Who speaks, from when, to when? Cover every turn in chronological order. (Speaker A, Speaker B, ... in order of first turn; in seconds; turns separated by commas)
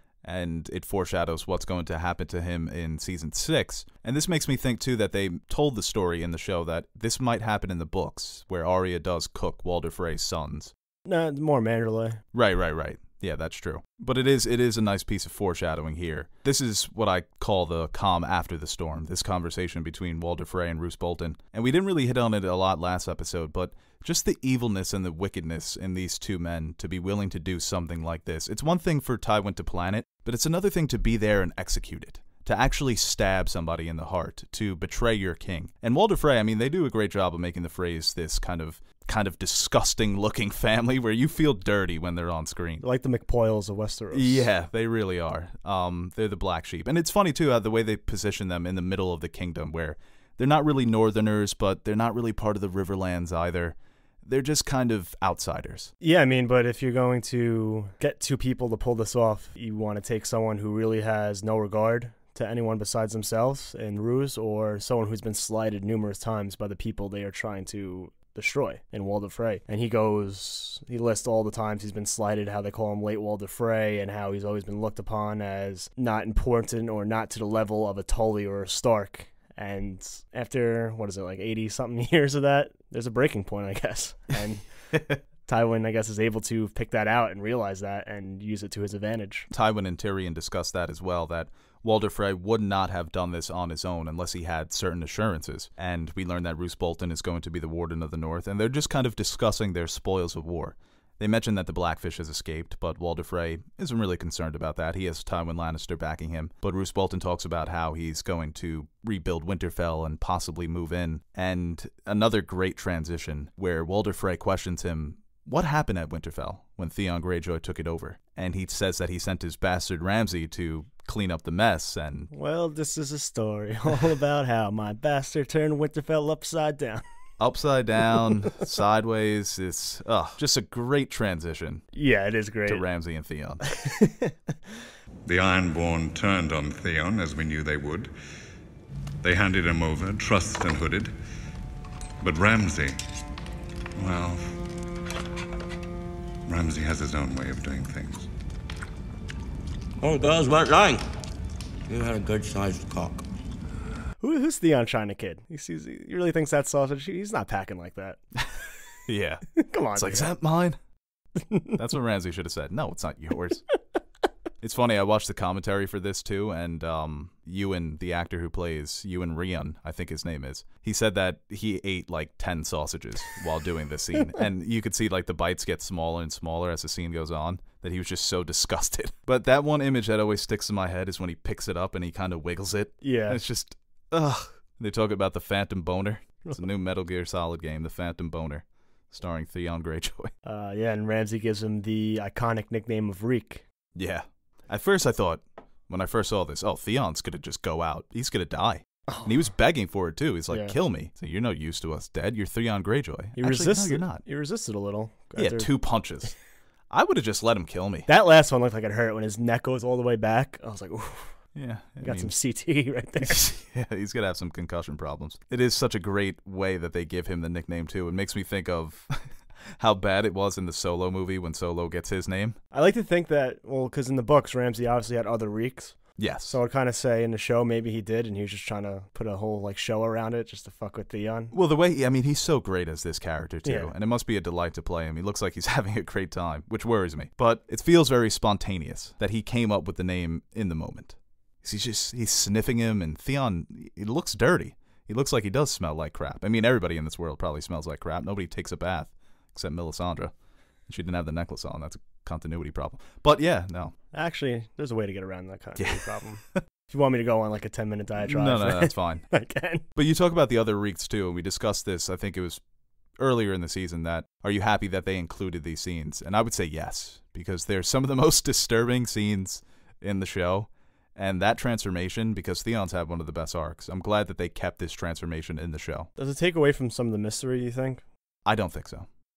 Speaker A: 0.2-10.7, Speaker B: 11.1-12.2, Speaker A: 12.3-42.8, Speaker B: 42.8-44.5, Speaker A: 44.1-55.9, Speaker B: 56.0-84.7, Speaker B: 85.4-89.5, Speaker A: 89.5-122.3, Speaker B: 122.3-127.0, Speaker A: 127.4-131.8, Speaker B: 131.9-132.8, Speaker A: 132.7-133.6, Speaker B: 133.7-134.6, Speaker C: 135.2-138.1, Speaker C: 139.2-141.1, Speaker C: 142.2-143.0, Speaker C: 143.9-144.4, Speaker C: 146.4-148.3, Speaker D: 150.0-151.0, Speaker D: 151.9-153.2, Speaker B: 154.2-158.2, Speaker A: 159.1-160.8, Speaker B: 159.6-160.3, Speaker B: 161.4-161.8, Speaker A: 161.7-163.6, Speaker A: 164.6-190.3, Speaker B: 183.0-183.4, Speaker B: 190.4-193.6, Speaker A: 193.9-204.2, Speaker B: 199.1-199.5, Speaker B: 200.5-200.8, Speaker B: 203.4-205.7, Speaker A: 205.3-206.3, Speaker A: 206.9-208.1, Speaker B: 208.1-211.3, Speaker A: 211.5-212.3, Speaker B: 212.0-213.4, Speaker A: 213.2-219.2, Speaker A: 219.8-222.6, Speaker B: 222.7-231.5, Speaker A: 226.2-226.6, Speaker A: 231.5-250.3, Speaker B: 233.6-233.9, Speaker A: 250.9-253.9, Speaker B: 254.1-259.8, Speaker A: 255.8-256.6, Speaker A: 258.2-259.3, Speaker A: 259.9-262.6, Speaker A: 263.2-276.1, Speaker B: 276.2-278.0, Speaker A: 278.4-279.1